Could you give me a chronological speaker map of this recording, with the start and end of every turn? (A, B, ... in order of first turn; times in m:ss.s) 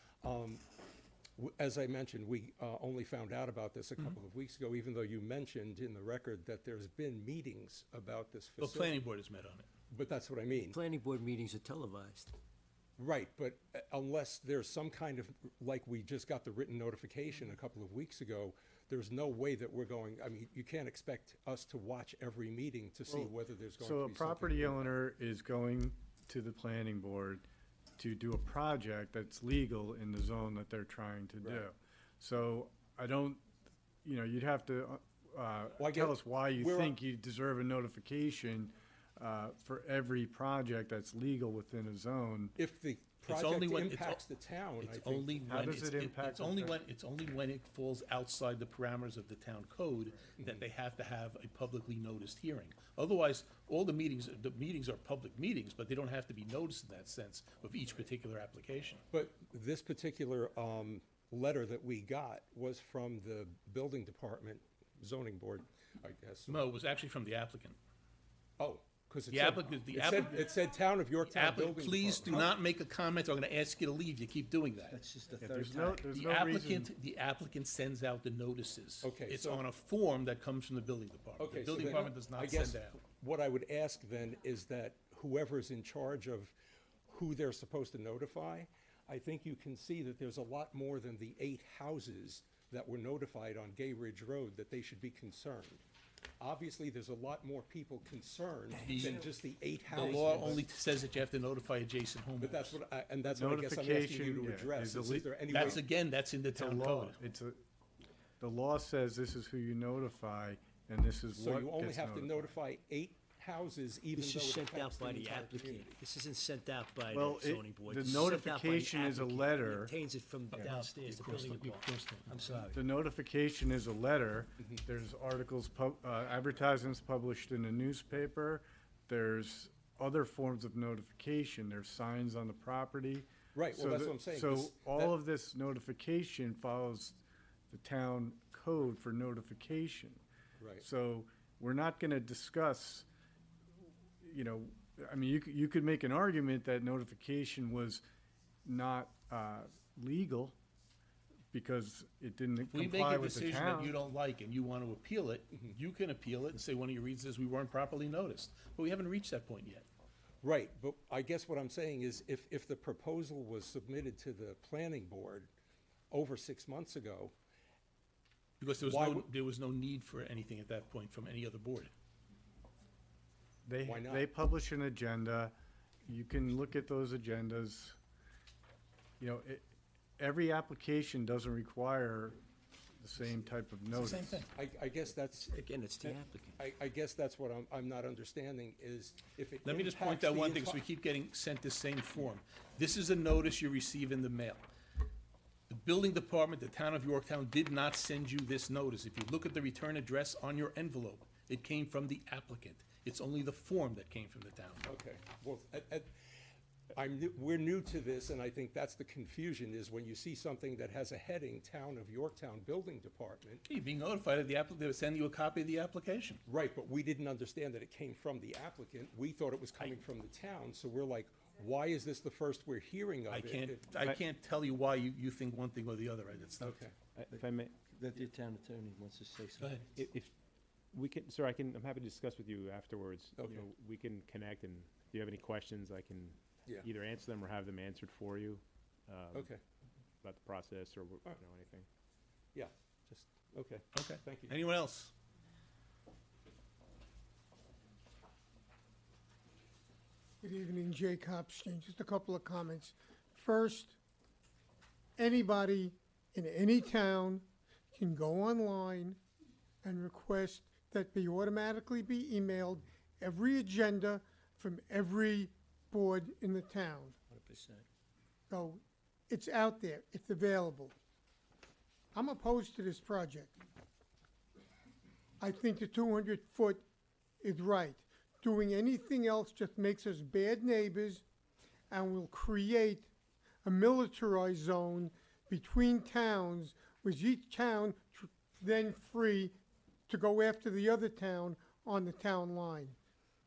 0:00.2-0:00.6 A
0:01.4-0:09.0 A
0:08.6-0:09.7 B
0:09.9-0:10.8 A
0:10.5-0:12.3 C
0:13.0-0:24.9 A
0:23.1-0:27.4 D
0:28.0-0:33.4 D
0:31.4-0:31.7 A
0:34.0-0:42.6 D
0:35.8-0:37.0 A
0:42.6-0:45.4 A
0:43.3-0:44.2 B
0:44.8-0:59.0 B
0:45.5-0:46.8 D
0:50.4-0:50.6 A
0:59.1-1:06.6 A
1:06.5-1:07.8 B
1:08.6-1:12.5 A
1:09.3-1:10.5 B
1:11.2-1:15.0 B
1:14.9-1:16.1 C
1:15.4-1:16.9 D
1:16.1-1:23.0 B
1:19.0-1:19.6 A
1:21.4-1:26.5 A
1:27.1-1:35.8 A
1:36.4-1:40.7 A
1:38.8-1:39.2 B
1:39.9-1:42.8 B
1:40.0-1:40.6 D
1:42.4-1:45.9 A
1:43.3-1:45.8 D
1:44.9-1:47.2 B
1:46.5-1:47.6 D
1:48.4-1:52.6 D
1:51.3-1:56.0 A
1:54.1-2:02.8 C
1:57.1-2:00.0 D
2:00.5-2:02.7 B
2:02.7-2:20.2 D
2:13.5-2:15.2 A
2:20.6-2:20.8 A
2:20.8-2:23.1 D
2:24.2-2:28.0 D
2:28.6-2:30.6 D
2:31.5-2:34.0 D
2:32.7-2:39.9 B
2:40.4-2:45.5 A
2:46.1-2:47.3 A
2:48.6-2:51.9 B
2:48.8-2:49.3 A
2:53.6-2:55.5 D
2:53.8-2:54.3 A
2:56.1-2:58.0 D
2:59.2-3:02.4 D
3:03.0-3:04.5 D
3:03.9-3:04.5 B
3:04.5-3:10.8 A
3:05.3-3:06.6 C
3:09.6-3:14.6 B
3:15.7-3:24.9 B
3:24.8-3:26.1 A
3:26.9-3:33.6 A
3:33.6-3:36.4 B
3:36.5-3:43.9 A
3:43.3-3:46.8 B
3:46.6-3:47.0 A
3:47.2-3:47.8 E
3:47.3-3:49.8 C
3:49.6-3:49.9 B
3:49.9-3:50.3 E
3:50.9-3:59.5 E
3:53.4-3:53.7 A
3:59.3-3:59.6 A
4:00.2-4:01.9 E
4:02.5-4:04.6 A
4:03.9-4:05.1 B
4:10.4-4:14.0 F
4:15.2-4:19.2 F
4:19.8-4:27.2 F
4:27.3-4:27.8 C
4:28.5-4:31.0 F
4:32.1-4:33.6 F
4:35.4-4:36.8 F
4:37.4-4:41.2 F
4:41.9-4:43.1 F
4:43.6-4:49.6 F
4:50.1-4:53.0 F